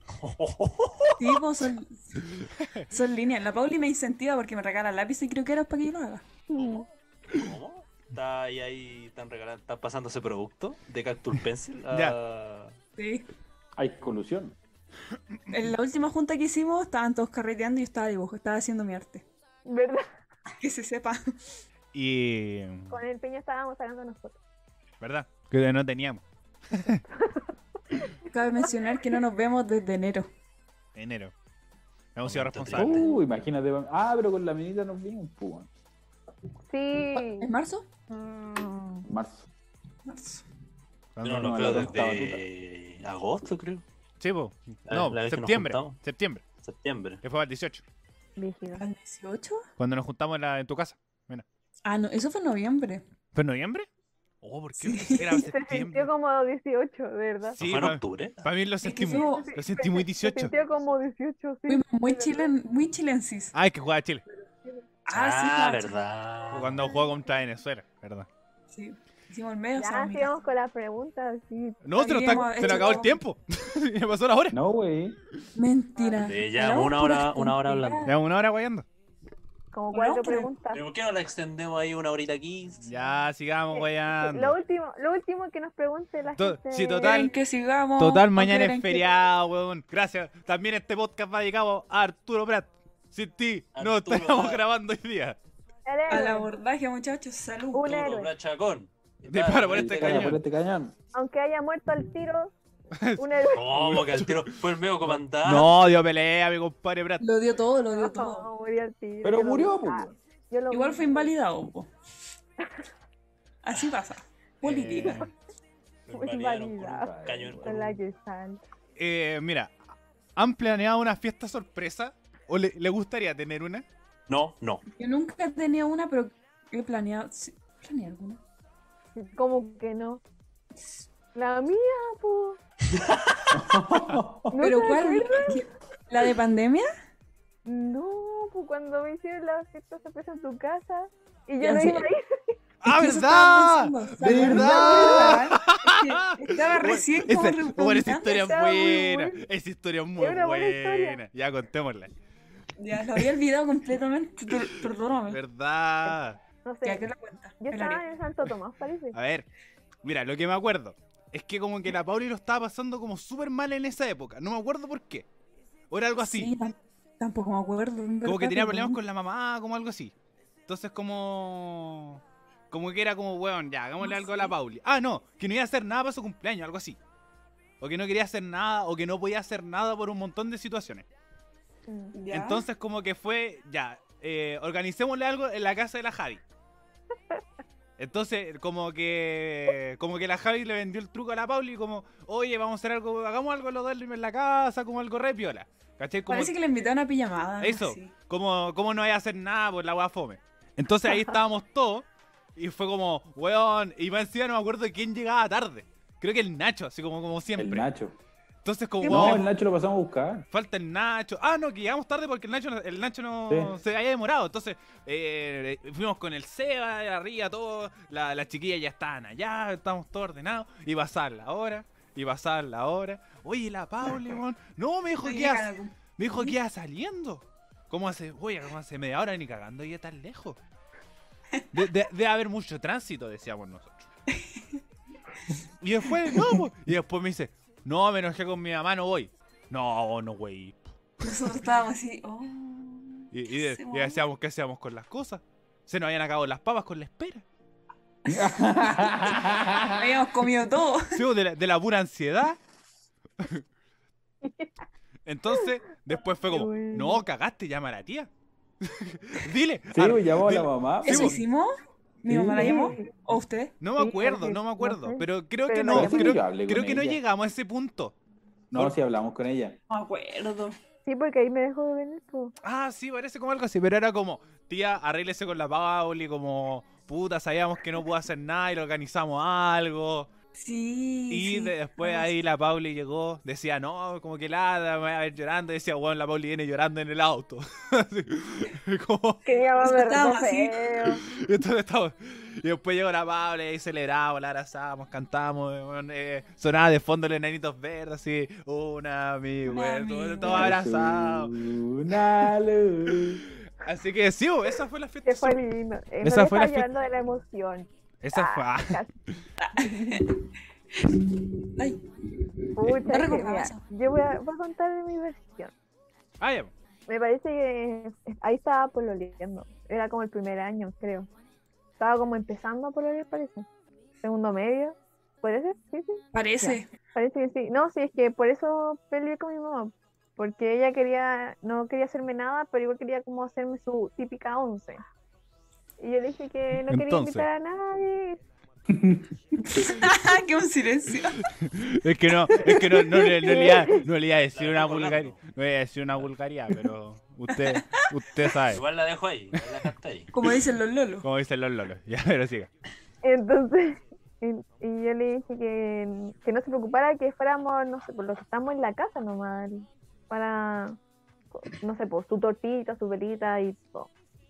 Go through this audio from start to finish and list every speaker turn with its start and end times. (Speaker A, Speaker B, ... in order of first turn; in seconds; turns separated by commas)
Speaker A: 0.2-1.4, Speaker B: 1.2-2.2, Speaker C: 2.3-2.9, Speaker B: 2.9-6.2, Speaker D: 6.5-6.8, Speaker A: 6.6-12.7, Speaker C: 11.9-12.2, Speaker B: 13.0-13.3, Speaker E: 13.8-14.6, Speaker B: 15.5-19.2, Speaker D: 19.6-20.1, Speaker B: 20.6-21.4, Speaker C: 21.9-23.0, Speaker D: 22.9-24.4, Speaker C: 25.0-27.0, Speaker D: 27.2-28.1, Speaker B: 28.3-30.3, Speaker C: 30.9-31.3, Speaker C: 32.1-33.0, Speaker A: 32.2-33.1, Speaker E: 32.7-35.7, Speaker D: 36.7-37.5, Speaker B: 37.2-37.9, Speaker D: 38.1-39.0, Speaker E: 39.0-39.5, Speaker B: 40.0-40.4, Speaker C: 41.1-41.9, Speaker A: 41.2-43.8, Speaker E: 41.3-42.4, Speaker C: 44.2-46.4, Speaker A: 44.9-46.0, Speaker A: 46.6-47.2, Speaker C: 47.2-47.8, Speaker D: 48.4-48.8, Speaker B: 48.8-49.6, Speaker C: 49.8-51.4, Speaker B: 51.8-53.0, Speaker C: 53.3-53.9, Speaker C: 54.4-56.1, Speaker B: 54.8-55.4, Speaker D: 55.2-57.6, Speaker C: 57.6-60.5, Speaker A: 57.6-58.4, Speaker B: 58.8-59.5, Speaker D: 59.1-62.5, Speaker B: 61.7-63.5, Speaker C: 63.5-64.2, Speaker B: 65.0-66.0, Speaker A: 65.1-66.8, Speaker C: 66.5-68.3, Speaker D: 66.8-67.1, Speaker B: 68.7-70.3, Speaker D: 69.8-73.1, Speaker C: 71.8-74.6, Speaker B: 72.0-73.2, Speaker E: 74.5-75.2, Speaker B: 75.5-78.1, Speaker D: 76.0-76.3, Speaker A: 76.2-78.1, Speaker C: 78.0-78.8, Speaker D: 79.7-80.8, Speaker B: 79.9-80.5, Speaker A: 80.7-82.9, Speaker C: 82.8-84.5, Speaker D: 83.7-87.3, Speaker C: 86.3-87.3, Speaker B: 87.0-89.1, Speaker C: 88.0-95.4, Speaker A: 93.7-94.6, Speaker D: 95.8-96.5, Speaker B: 96.1-97.9, Speaker D: 97.7-98.3, Speaker A: 97.8-100.4, Speaker C: 99.3-100.4, Speaker E: 99.7-100.9, Speaker D: 101.1-102.5, Speaker C: 103.0-104.6, Speaker D: 103.2-103.7, Speaker A: 103.5-105.8, Speaker C: 105.1-107.2, Speaker B: 107.2-108.5, Speaker D: 107.9-111.3, Speaker E: 109.2-110.2, Speaker B: 110.7-111.9, Speaker B: 113.6-115.3, Speaker C: 114.6-115.3, Speaker A: 116.1-117.9, Speaker D: 116.1-117.1, Speaker E: 116.8-118.0, Speaker D: 117.6-118.6, Speaker C: 119.0-119.8, Speaker C: 120.3-123.8, Speaker A: 124.3-124.8, Speaker B: 125.0-128.4, Speaker D: 129.2-130.2, Speaker D: 131.3-132.6, Speaker A: 132.9-133.6, Speaker E: 133.5-134.7, Speaker D: 134.5-135.6, Speaker B: 134.6-136.9, Speaker D: 137.6-142.6, Speaker B: 141.6-142.1, Speaker C: 142.8-152.1, Speaker B: 142.8-148.3, Speaker E: 144.2-145.0, Speaker D: 144.5-145.4, Speaker D: 148.2-149.4, Speaker D: 150.2-151.2, Speaker B: 152.8-155.4, Speaker C: 154.6-156.4, Speaker D: 156.6-157.1, Speaker B: 156.8-158.1, Speaker D: 157.6-159.2, Speaker C: 159.1-159.4, Speaker C: 160.0-165.3, Speaker C: 165.9-166.5, Speaker B: 166.2-169.0, Speaker C: 168.2-170.1, Speaker C: 170.7-177.0, Speaker B: 174.0-174.5, Speaker C: 177.8-181.1, Speaker D: 181.9-182.2, Speaker B: 182.1-182.6, Speaker C: 182.3-186.4, Speaker C: 188.0-196.5, Speaker B: 196.3-198.1, Speaker C: 197.6-207.9, Speaker E: 207.6-208.2, Speaker C: 208.6-209.5, Speaker B: 209.0-209.4, Speaker E: 209.0-210.4, Speaker C: 210.5-230.6, Speaker B: 225.2-226.5, Speaker C: 231.7-234.1, Speaker B: 234.3-234.8, Speaker C: 235.8-241.5, Speaker B: 241.2-244.2, Speaker C: 243.3-247.4, Speaker E: 248.2-250.3, Speaker B: 249.9-251.2, Speaker C: 251.1-252.6, Speaker D: 254.4-254.7, Speaker C: 255.2-258.3, Speaker D: 256.5-257.2, Speaker C: 258.8-261.4, Speaker E: 259.9-261.4, Speaker B: 261.0-263.8, Speaker E: 262.3-262.9, Speaker D: 262.6-263.1, Speaker C: 263.8-268.1, Speaker D: 264.0-266.4, Speaker E: 265.9-267.2, Speaker E: 268.7-269.8, Speaker C: 268.7-269.0, Speaker B: 269.9-270.8, Speaker D: 271.0-272.5, Speaker C: 272.6-280.3, Speaker B: 280.6-282.3, Speaker C: 281.3-289.4, Speaker D: 289.4-291.2, Speaker B: 289.8-290.8, Speaker C: 291.2-301.5, Speaker B: 299.6-300.8, Speaker E: 300.4-303.4, Speaker C: 303.2-305.6, Speaker D: 305.2-309.1, Speaker C: 306.2-306.9, Speaker C: 308.2-309.0, Speaker B: 309.6-312.0, Speaker D: 309.8-310.2, Speaker D: 312.8-315.7, Speaker B: 313.0-313.8, Speaker C: 316.4-316.7, Speaker D: 317.1-321.3, Speaker D: 322.0-323.7, Speaker D: 324.2-335.0, Speaker B: 326.3-326.9, Speaker D: 336.0-338.4, Speaker C: 336.9-337.4, Speaker E: 338.9-339.3, Speaker B: 339.6-341.4, Speaker C: 341.4-348.8, Speaker B: 342.5-343.5, Speaker D: 343.4-344.0, Speaker A: 344.5-345.4, Speaker B: 347.5-348.0, Speaker A: 348.7-350.3, Speaker B: 350.3-351.3, Speaker C: 351.2-352.7, Speaker D: 353.2-361.0, Speaker D: 361.5-364.1